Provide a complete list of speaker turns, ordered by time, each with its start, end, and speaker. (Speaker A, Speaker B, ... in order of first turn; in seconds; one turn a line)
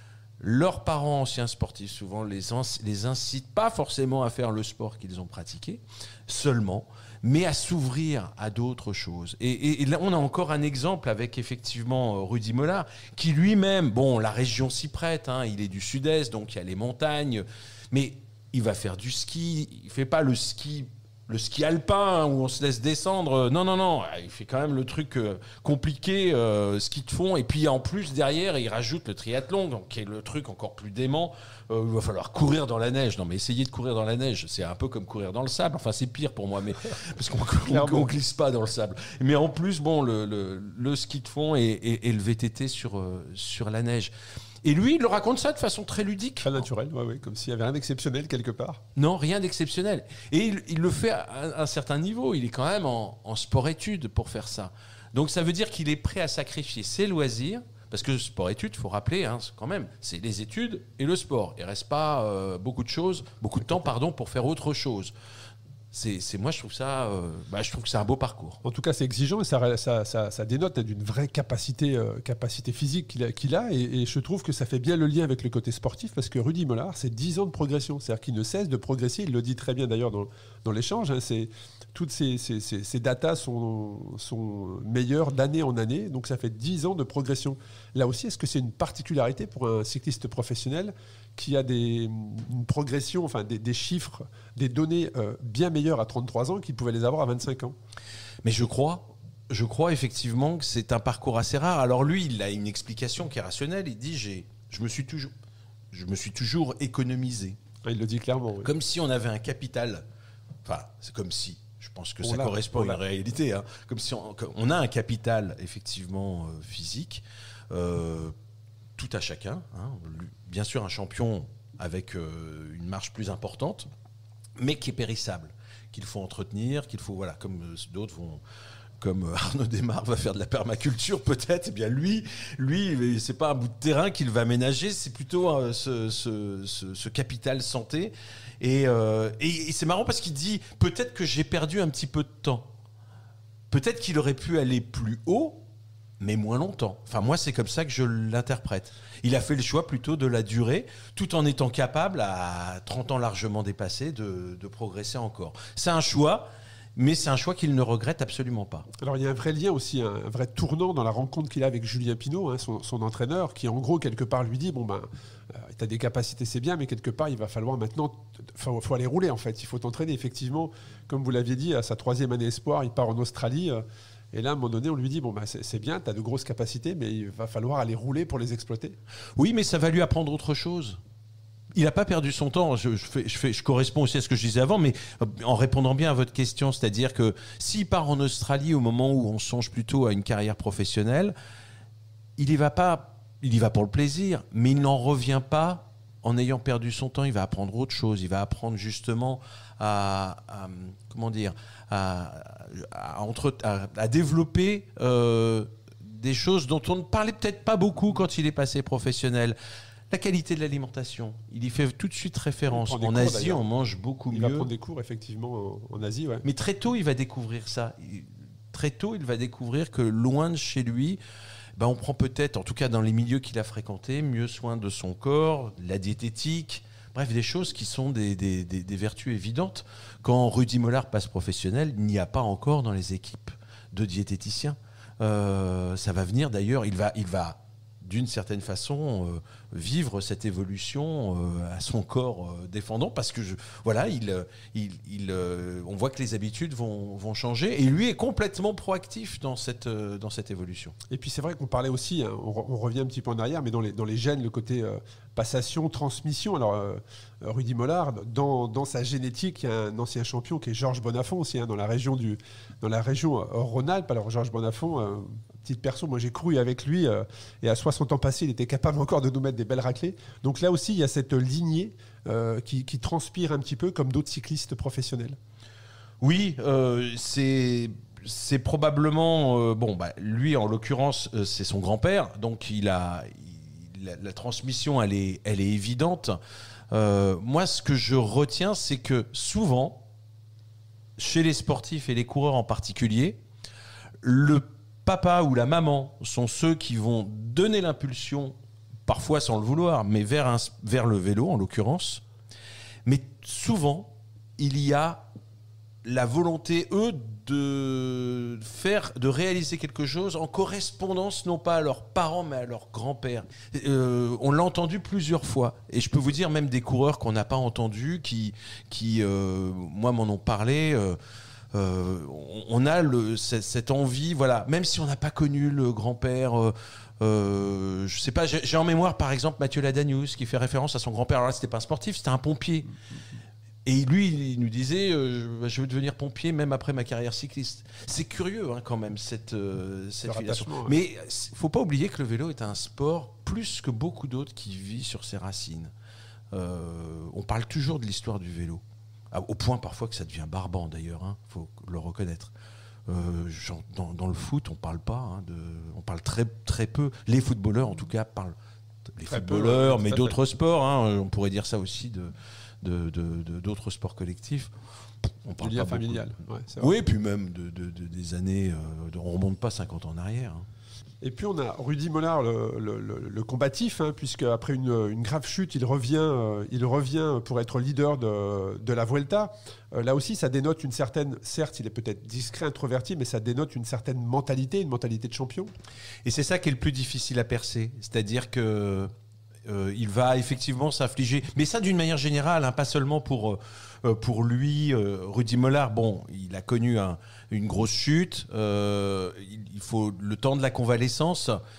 Speaker A: 0.4-44.1
Speaker B: 37.6-38.1
Speaker A: 44.6-46.6
Speaker B: 46.4-48.8
Speaker A: 49.0-65.1
Speaker A: 65.9-68.6
Speaker B: 68.6-97.8
Speaker A: 98.4-105.3
Speaker A: 105.9-107.6
Speaker B: 107.8-108.7
Speaker A: 108.6-110.0
Speaker A: 110.6-118.3
Speaker B: 112.2-113.0
Speaker A: 119.0-123.9
Speaker A: 124.6-128.4
Speaker A: 129.0-142.7
Speaker A: 143.7-145.6
Speaker A: 146.2-158.9
Speaker B: 159.0-179.0
Speaker A: 179.4-181.0
Speaker A: 181.7-191.3
Speaker A: 192.4-209.6
Speaker A: 210.1-214.7
Speaker B: 212.7-213.7
Speaker B: 214.3-216.4
Speaker A: 216.4-221.2
Speaker A: 221.8-250.9
Speaker B: 251.1-275.4
Speaker A: 276.2-286.4
Speaker A: 286.9-290.0
Speaker A: 291.2-293.4
Speaker A: 294.2-298.6
Speaker A: 299.1-302.2
Speaker A: 303.1-305.3
Speaker A: 306.0-321.2
Speaker A: 321.7-332.9
Speaker A: 333.9-345.9
Speaker B: 340.2-341.0
Speaker A: 346.5-352.5
Speaker A: 353.1-358.6
Speaker A: 359.1-364.7
Speaker B: 359.3-360.4
Speaker A: 365.3-370.6
Speaker B: 365.6-367.0
Speaker B: 371.2-385.7
Speaker A: 386.2-389.1
Speaker A: 389.6-401.6